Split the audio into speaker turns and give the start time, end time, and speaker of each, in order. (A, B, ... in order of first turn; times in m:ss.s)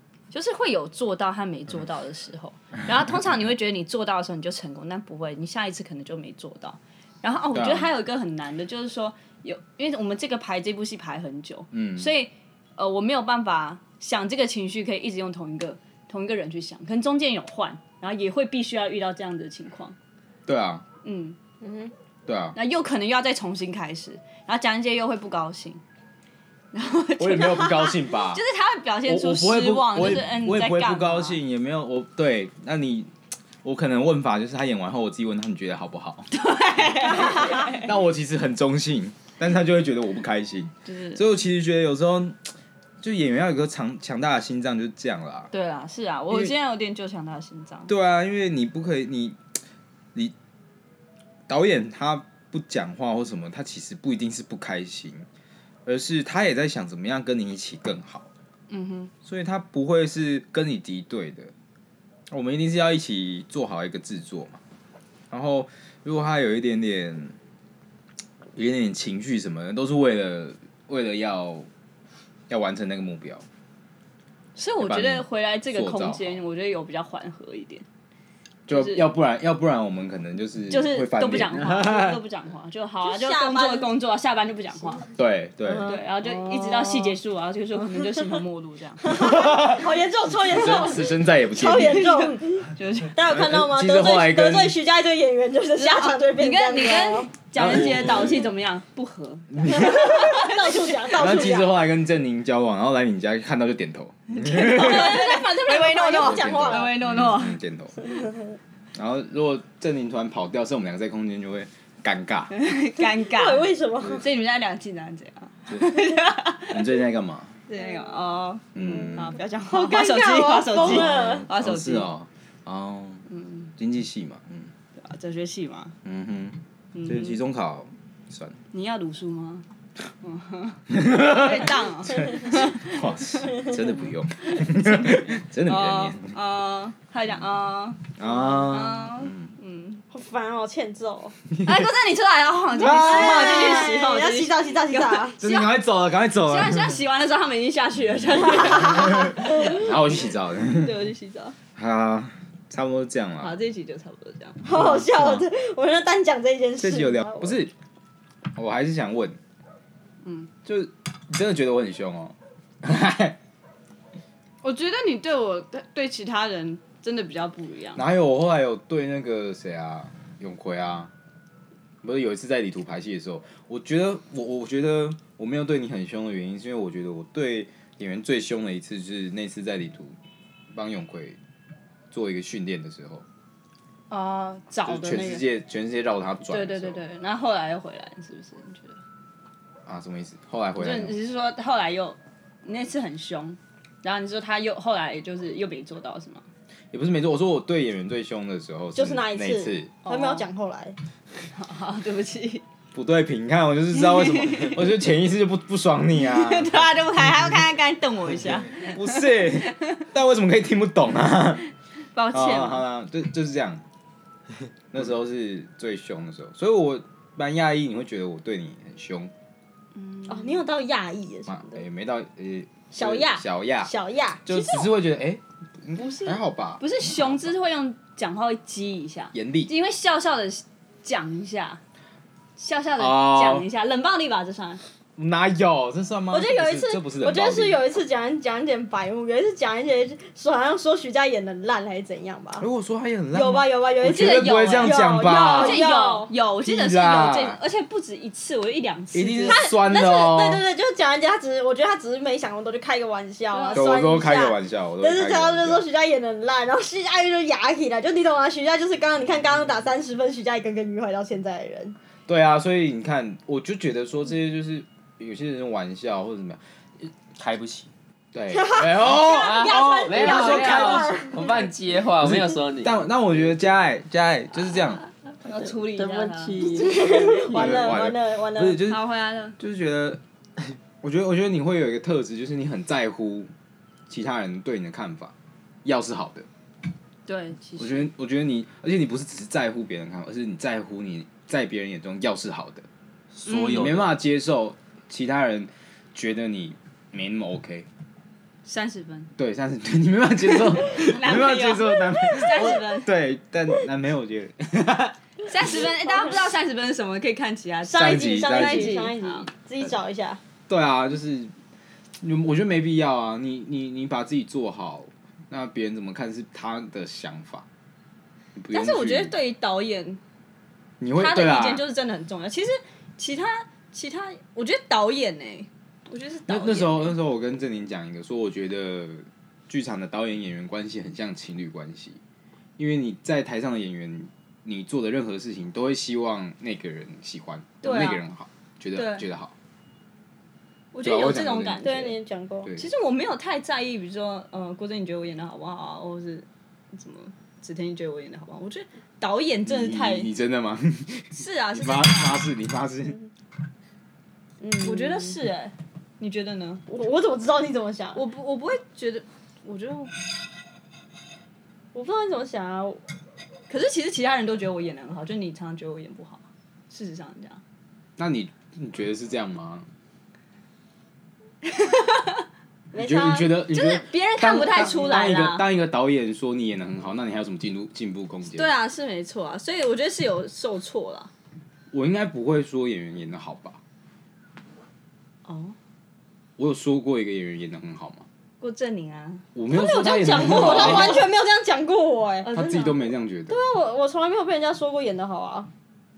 0:00.3-0:20.0 A
0:07.5-0:07.9 B
0:11.7-0:12.1 B
0:20.4-0:20.8 B
0:21.0-0:21.4 A
0:21.6-0:21.9 C
0:22.3-0:22.6 B
0:22.5-0:25.8 A
0:26.7-0:31.4 A
0:27.2-0:28.4 B
0:29.0-0:33.1 B
0:33.6-0:36.3 B
0:36.3-0:37.9 A
0:37.2-0:42.4 B
0:40.8-0:41.2 A
0:43.0-0:45.5 B
0:45.5-0:47.9 A
0:46.3-0:46.5 B
0:47.9-0:49.4 B
0:51.5-0:55.2 B
0:55.8-0:58.3 B
0:58.7-0:59.1 A
0:59.2-1:01.5 B
1:02.3-1:04.6 B
1:05.3-1:07.4 B
1:08.5-1:11.7 B
1:12.5-1:13.4 B
1:14.6-1:17.8 A
1:14.8-1:16.4 B
1:18.7-1:19.0 A
1:18.7-1:22.2 B
1:20.7-1:25.1 A
1:23.0-1:23.9 C
1:25.2-1:26.0 B
1:25.6-1:27.2 C
1:25.8-1:29.2 A
1:29.0-1:37.3 C
1:29.1-1:29.9 B
1:30.5-1:32.1 B
1:31.7-1:33.2 A
1:33.3-1:34.8 B
1:35.8-1:41.2 A
1:37.5-1:38.5 B
1:39.5-1:40.4 B
1:39.6-1:41.7 C
1:41.2-1:45.2 B
1:44.3-1:47.6 A
1:44.6-1:46.9 C
1:46.1-1:48.0 B
1:48.0-1:48.6 C
1:48.9-1:52.5 B
1:52.5-1:57.0 A
1:53.0-1:54.2 C
1:56.7-1:57.5 B
1:57.7-2:02.1 A
1:58.7-1:59.4 B
1:58.8-2:01.5 C
2:00.8-2:03.2 B
2:03.3-2:03.7 A
2:03.8-2:04.7 B
2:05.0-2:05.9 A
2:06.0-2:08.6 B
2:06.9-2:07.4 A
2:08.7-2:09.6 A
2:10.2-2:13.0 A
2:10.9-2:16.3 B
2:14.5-2:20.0 A
2:18.2-2:19.5 B
2:20.1-2:21.4 C
2:21.5-2:21.9 B
2:21.6-2:25.7 A
2:22.8-2:23.9 B
2:22.8-2:25.4 C
2:25.4-2:27.0 B
2:26.4-2:31.6 A
2:28.7-2:31.0 B
2:29.3-2:29.8 C
2:31.8-2:33.6 B
2:33.4-2:34.6 A
2:34.6-2:37.6 C
2:34.8-2:35.4 B
2:36.8-2:37.7 B
2:38.5-2:39.4 B
2:40.2-2:40.5 A
2:40.6-2:43.4 B
2:44.6-2:48.0 A
2:47.9-2:51.1 B
2:52.0-3:00.1 B
3:00.7-3:01.4 B
3:02.1-3:03.2 B
3:04.1-3:05.4 A
3:04.8-3:07.0 B
3:06.4-3:09.0 A
3:09.8-3:11.2 B
3:10.8-3:16.5 A
3:16.9-3:19.9 B
3:18.9-3:21.0 C
3:20.0-3:20.4 A
3:21.5-3:22.6 A
3:22.9-3:26.8 B
3:23.9-3:24.9 A
3:26.2-3:29.2 A
3:28.7-3:31.6 B
3:32.1-3:32.8 A
3:32.3-3:33.8 B
3:34.9-3:39.3 B
3:40.0-3:40.6 A
3:40.3-3:41.8 C
3:41.5-3:43.9 B
3:42.9-3:44.8 C
3:44.4-3:47.5 B
3:46.0-3:51.8 A
3:49.3-3:49.7 B
3:52.6-3:54.8 A
3:53.0-3:53.7 B
3:55.2-3:57.8 B
3:56.3-4:02.7 C
4:02.6-4:05.8 B
4:03.3-4:06.3 C
4:04.0-4:09.6 A
4:06.6-4:07.6 B
4:09.1-4:10.6 B
4:09.4-4:22.0 C
4:13.5-4:14.1 A
4:13.7-4:15.8 B
4:22.3-4:26.6 B
4:27.3-4:27.9 D
4:28.3-4:31.2 B
4:28.5-4:31.5 C
4:29.2-4:33.6 D
4:29.7-4:30.9 A
4:32.2-4:35.0 B
4:35.4-4:36.9 A
4:35.9-4:37.8 D
4:36.6-4:38.8 C
4:37.5-4:39.0 B
4:38.8-4:39.6 A
4:39.6-4:40.2 B
4:41.0-4:43.5 B
4:44.1-4:46.5 B
4:47.2-4:48.1 A
4:47.8-4:52.8 B
4:53.3-4:54.2 D
4:53.4-4:57.9 B
4:58.6-4:59.3 A
4:59.4-5:05.8 B
5:00.5-5:03.1 A
5:05.4-5:09.5 A
5:06.0-5:06.4 C
5:07.8-5:10.4 C
5:07.9-5:09.0 B
5:10.7-5:11.5 B
5:12.2-5:17.6 B
5:18.6-5:19.3 B
5:18.7-5:20.2 A
5:21.0-5:21.8 B
5:21.1-5:27.1 A
5:26.5-5:32.2 B
5:32.8-5:39.5 B
5:37.8-5:38.2 A
5:38.9-5:39.2 A
5:40.9-5:42.2 A
5:41.0-5:41.8 B
5:41.8-5:42.7 C
5:42.7-5:50.3 A
5:49.6-5:53.2 B
5:51.3-5:52.5 A
5:54.6-5:55.4 C
5:54.8-5:56.8 A
5:56.9-5:58.2 C
5:58.2-6:00.1 A
6:01.9-6:03.0 C
6:03.7-6:07.6 A
6:08.2-6:09.9 B
6:11.6-6:12.4 A
6:12.9-6:13.5 C
6:12.9-6:18.7 B
6:13.7-6:15.7 A
6:14.9-6:15.2 C
6:18.5-6:21.3 A
6:21.9-6:23.8 B
6:25.4-6:25.8 A
6:26.6-6:28.2 B
6:28.6-6:31.2 A
6:29.5-6:31.2 B
6:29.7-6:32.5 C
6:32.4-6:33.0 A
6:32.5-6:33.6 B
6:33.5-6:35.7 C